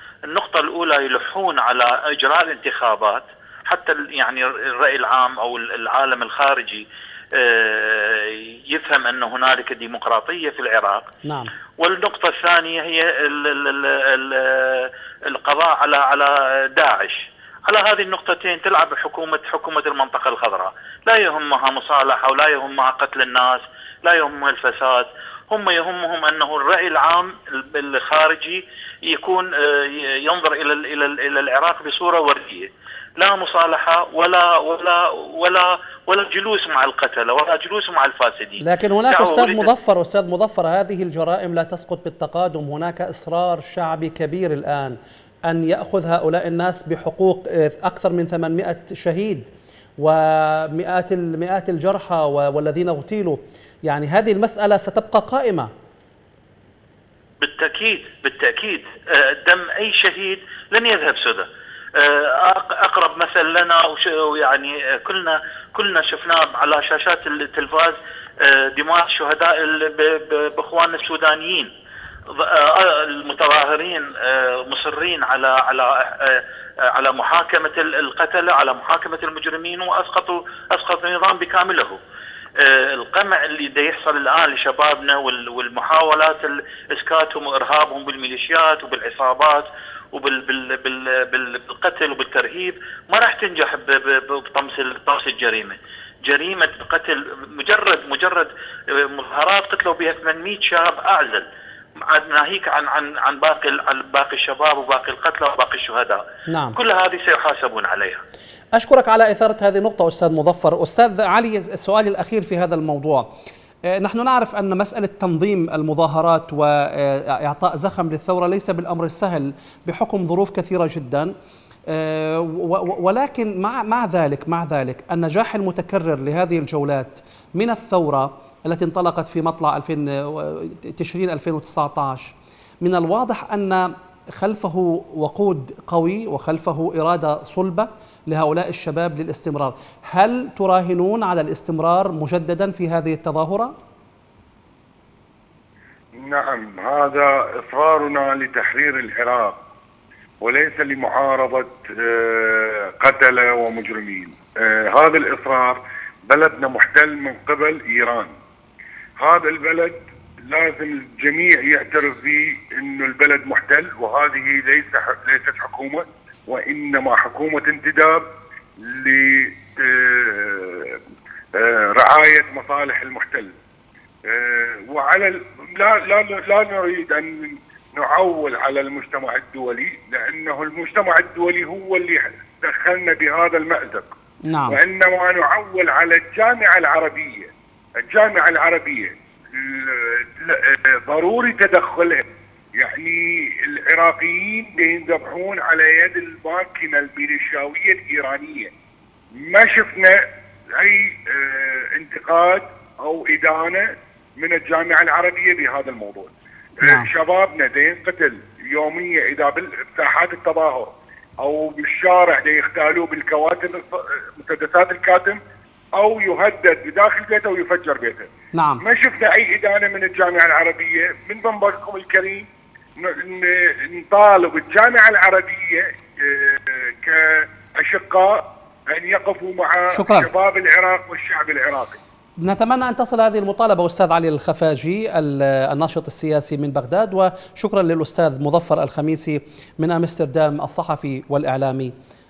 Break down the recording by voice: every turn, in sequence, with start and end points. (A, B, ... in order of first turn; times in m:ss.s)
0:00.3-0:11.0 A
0:11.2-0:11.5 B
0:11.8-0:39.7 A
0:38.6-0:49.5 B
0:50.0-0:55.7 B
0:57.4-1:11.7 A
1:12.3-1:22.0 A
1:22.6-1:41.4 A
1:42.0-1:46.2 A
1:46.5-1:46.8 B
1:46.8-1:48.2 A
1:48.8-1:53.3 B
1:53.9-2:01.3 B
2:01.9-2:23.7 B
2:26.2-2:29.6 C
2:30.4-2:38.3 C
2:39.2-2:48.3 C
2:48.8-2:51.0 C
2:51.6-2:53.6 C
2:54.2-3:04.1 C
3:04.4-3:04.8 B
3:04.7-3:07.5 C
3:08.0-3:18.7 C
3:19.4-3:20.2 C
3:20.8-3:35.4 C
3:26.8-3:27.1 B
3:36.0-3:52.0 C
3:38.5-3:38.8 B
3:49.9-3:50.3 B
3:52.4-4:01.9 B